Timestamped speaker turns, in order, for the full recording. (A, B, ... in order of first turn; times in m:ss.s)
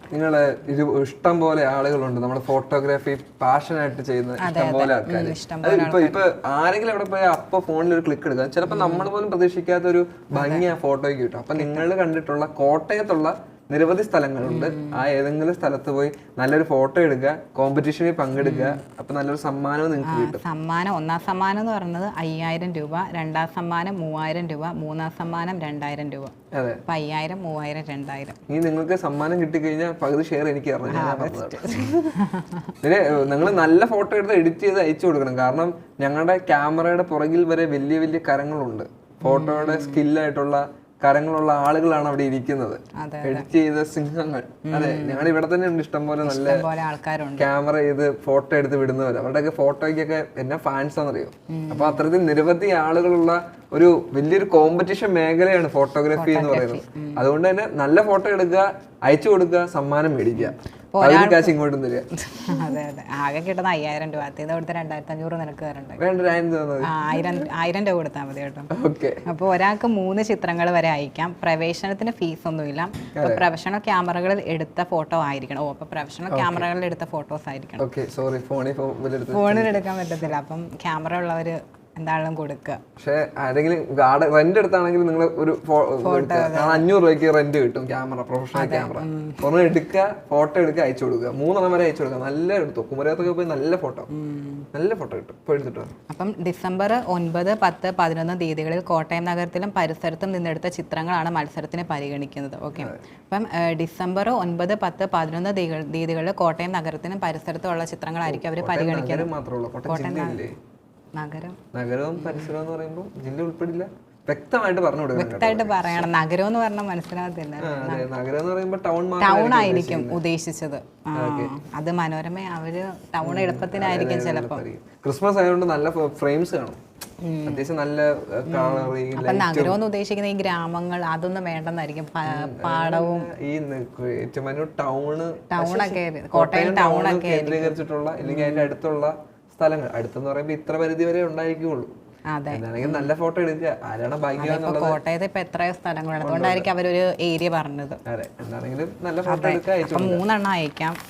0:00.1-0:20.4 A
0:04.4-0:06.2 B
0:08.7-0:09.1 B
0:10.3-0:10.7 B
0:11.5-0:11.9 B
0:14.4-0:15.0 B
0:18.4-0:18.8 B
0:20.0-0:26.3 B
0:26.5-0:26.8 A
0:26.8-0:28.4 B
0:28.5-0:32.2 A
0:30.9-0:32.8 B
0:32.8-0:46.7 A
0:39.2-0:40.0 B
0:43.0-0:43.5 B
0:44.6-0:45.3 B
0:46.2-0:47.5 B
0:47.4-1:02.8 A
0:51.5-0:52.1 B
0:56.1-0:57.2 B
1:00.4-1:01.6 B
1:02.3-1:06.0 B
1:06.0-1:07.5 A
1:06.8-1:08.7 B
1:08.7-1:09.2 A
1:09.2-1:17.9 B
1:13.1-1:13.4 A
1:16.3-1:16.7 A
1:17.8-1:19.8 A
1:19.3-1:22.8 B
1:23.0-1:34.1 A
1:26.0-1:26.9 B
1:28.5-1:29.4 B
1:34.1-1:34.6 B
1:34.7-1:35.9 A
1:36.1-1:49.3 B
1:42.7-1:43.0 A
1:48.2-1:50.5 A
1:49.8-1:50.4 B
1:51.2-1:51.6 B
1:51.7-1:56.1 A
1:52.2-1:52.5 B
1:55.1-1:58.1 B
1:57.6-2:00.2 A
1:59.2-2:04.6 B
2:01.1-2:01.5 A
2:03.2-2:06.8 A
2:07.2-2:07.7 B
2:07.4-2:09.8 A
2:08.4-2:13.3 B
2:12.2-2:21.9 A
2:15.5-2:18.7 B
2:22.3-2:23.1 B
2:22.5-2:25.0 A
2:24.4-2:28.0 B
2:26.2-2:26.7 A
2:28.0-2:30.2 A
2:29.2-2:31.0 B